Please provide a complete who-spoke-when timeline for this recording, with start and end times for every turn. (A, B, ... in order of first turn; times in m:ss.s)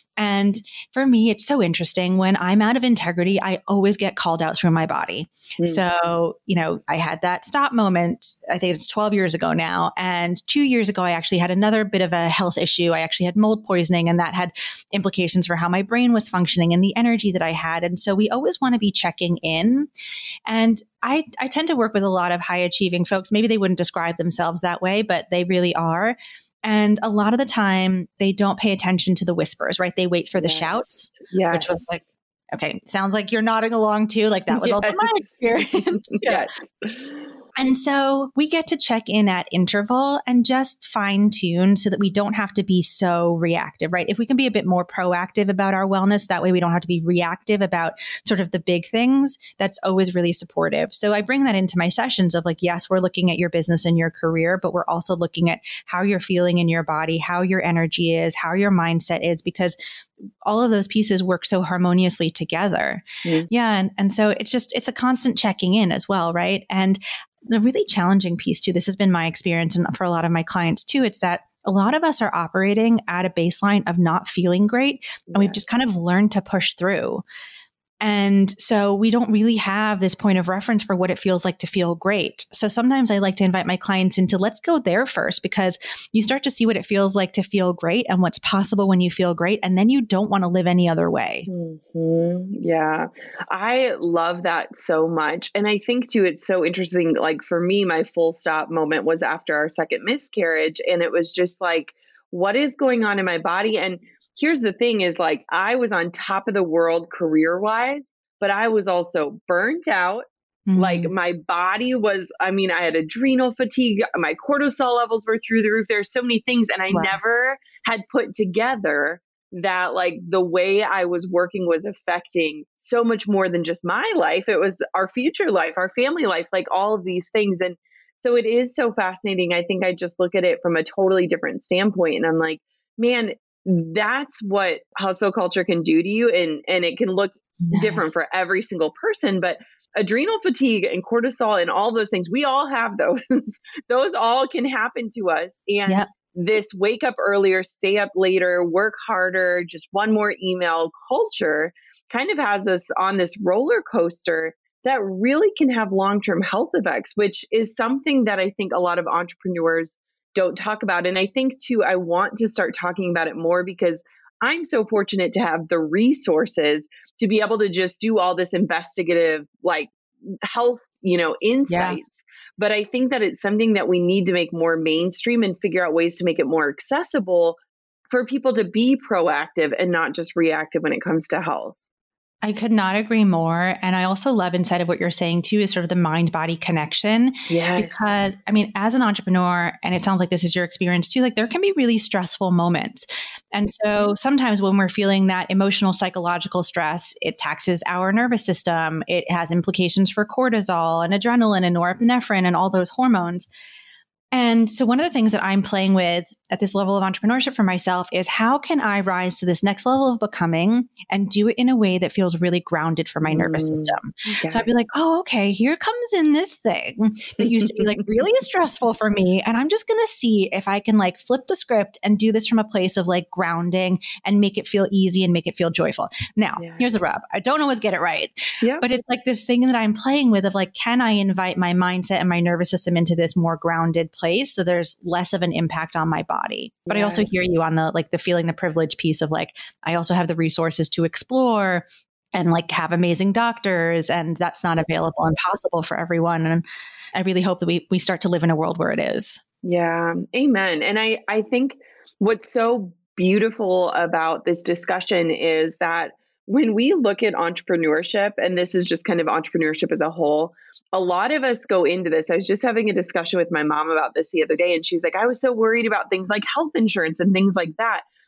0:00.2-0:19.9 A
0:05.6-0:05.8 B
0:20.5-0:36.5 A
0:30.4-0:30.7 B
0:31.3-0:31.9 B
0:34.5-0:35.2 B
0:36.1-0:37.1 B
0:37.6-0:59.8 A
1:00.4-1:17.2 A
1:15.3-1:15.6 B
1:18.0-1:31.5 A
1:31.5-2:57.6 B
1:50.7-1:51.1 A
1:56.9-1:57.2 A
2:17.7-2:18.1 A
2:51.7-2:52.0 A
2:58.1-3:01.8 B
3:02.4-3:23.5 A
3:07.5-3:08.1 B
3:24.3-4:01.8 A
3:33.2-3:34.7 B
3:37.4-3:37.9 B
3:46.6-3:47.0 B
3:56.9-3:57.4 B
4:02.3-4:06.6 A
4:07.1-4:09.4 A
4:09.6-4:28.0 B